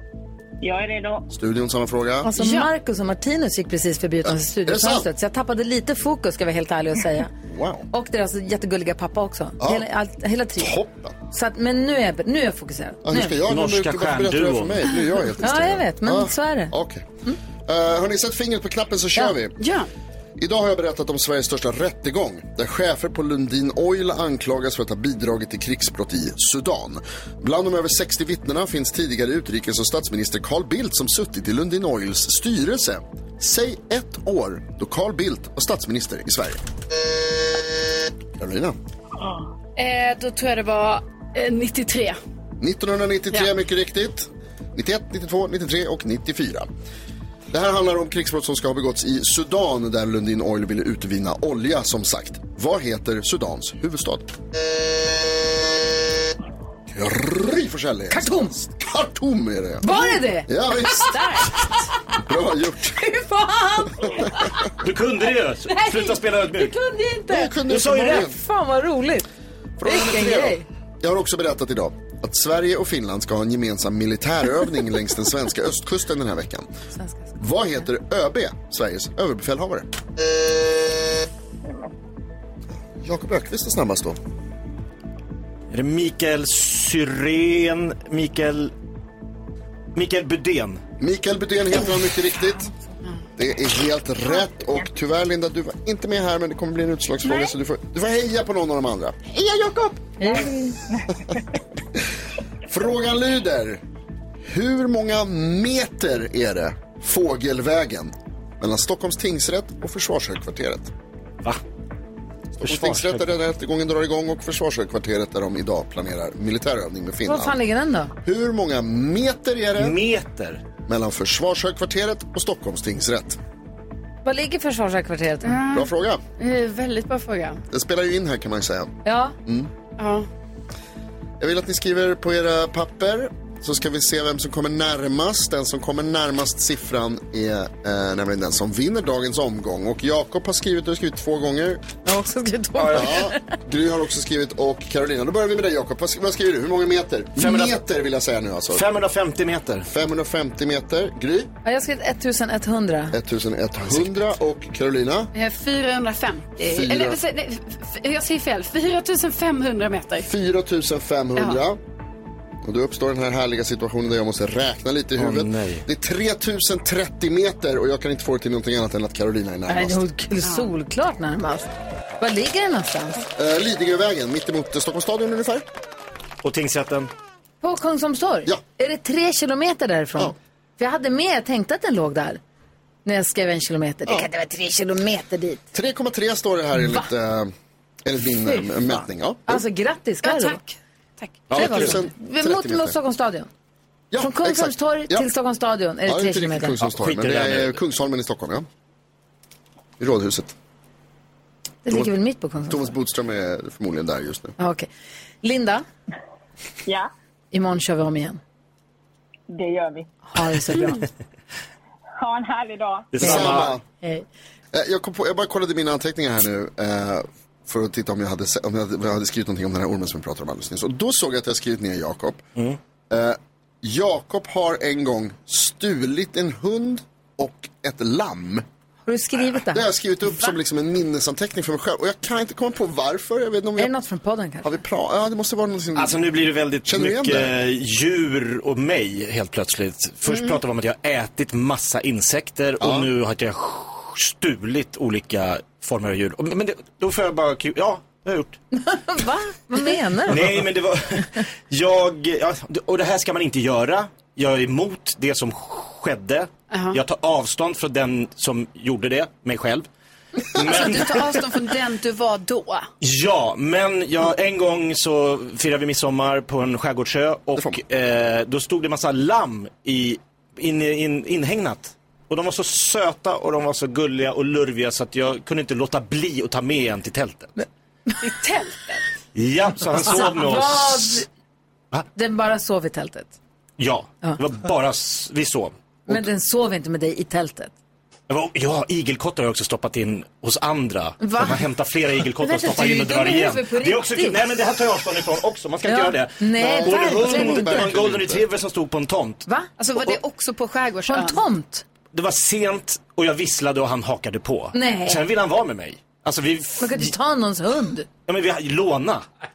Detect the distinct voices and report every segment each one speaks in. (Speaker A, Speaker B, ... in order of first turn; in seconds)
Speaker A: 0.6-1.3, 81.6-81.9, 100.2-101.2, 209.5-210.1, 212.2-213.1
Speaker B: 1.3-2.3, 4.2-5.1, 7.5-7.8, 10.6-11.1, 13.0-17.1, 17.6-19.6, 20.4-36.6, 38.4-38.8, 42.6-46.7, 47.5-54.3, 56.9-61.5, 62.2-63.0, 67.3-68.3, 69.8-76.7, 77.4-79.9, 83.0-84.2, 91.0-92.7, 93.4-99.9, 102.7-103.8, 104.4-110.9, 112.5-117.5, 118.2-120.0, 120.8-123.4, 125.7-126.2, 127.7-129.7, 131.4-141.8, 142.9-148.9, 149.8-151.5, 153.1-155.3, 156.6-157.2, 160.2-161.8, 162.6-170.0, 173.3-175.7, 185.7-187.5, 188.0-189.6, 191.5-192.9, 194.1-195.2, 196.1-198.7, 200.0-200.5, 202.7-204.6, 213.2-213.8, 214.7-222.4, 223.1-228.6, 229.7-233.9, 234.6-236.2, 236.8-237.5, 242.8-243.1, 296.6-298.5
Speaker C: 2.2-7.3, 7.9-13.4, 15.4-16.7, 58.1-58.5, 59.8-61.7, 63.0-64.7, 65.7-69.3, 69.8-70.6, 100.2-100.5, 117.2-118.1, 124.2-125.6, 129.0-129.3, 142.0-143.4, 151.6-153.2, 169.7-173.3, 177.6-182.4, 183.0-185.6, 186.8-187.1, 188.4-188.8, 189.4-190.6, 191.5-193.5, 194.2-196.7, 201.8-202.9, 204.6-204.9, 205.4-205.8, 207.5-208.4, 210.3-211.1, 213.2-214.2, 229.1-229.9, 233.8-234.8, 248.7-250.6, 280.1-281.3, 282.1-283.3, 286.1-287.7, 291.2-291.6, 292.4-294.4, 295.8-297.9, 301.1-301.8, 304.7-305.2, 306.8-308.1
Speaker D: 2.3-2.7, 19.6-19.9, 39.8-42.2, 125.4-127.6, 130.0-130.2, 155.3-160.3, 190.2-191.3, 240.3-240.6, 256.7-257.0, 260.6-262.9, 278.2-279.0, 299.8-301.4
Speaker E: 13.4-14.8, 64.8-66.8, 67.6-68.3, 69.9-70.5, 85.7-88.7, 89.9-90.8, 112.6-113.3, 119.8-120.6, 142.8-143.1, 147.4-147.8, 148.7-149.9, 165.2-165.8, 176.4-177.1, 191.5-192.0, 196.8-197.8, 213.1-213.8, 235.9-248.6, 250.2-259.9, 260.5-261.4, 263.0-277.5, 279.3-281.2, 283.8-286.2, 288.3-299.4, 302.1-307.1, 308.3-309.2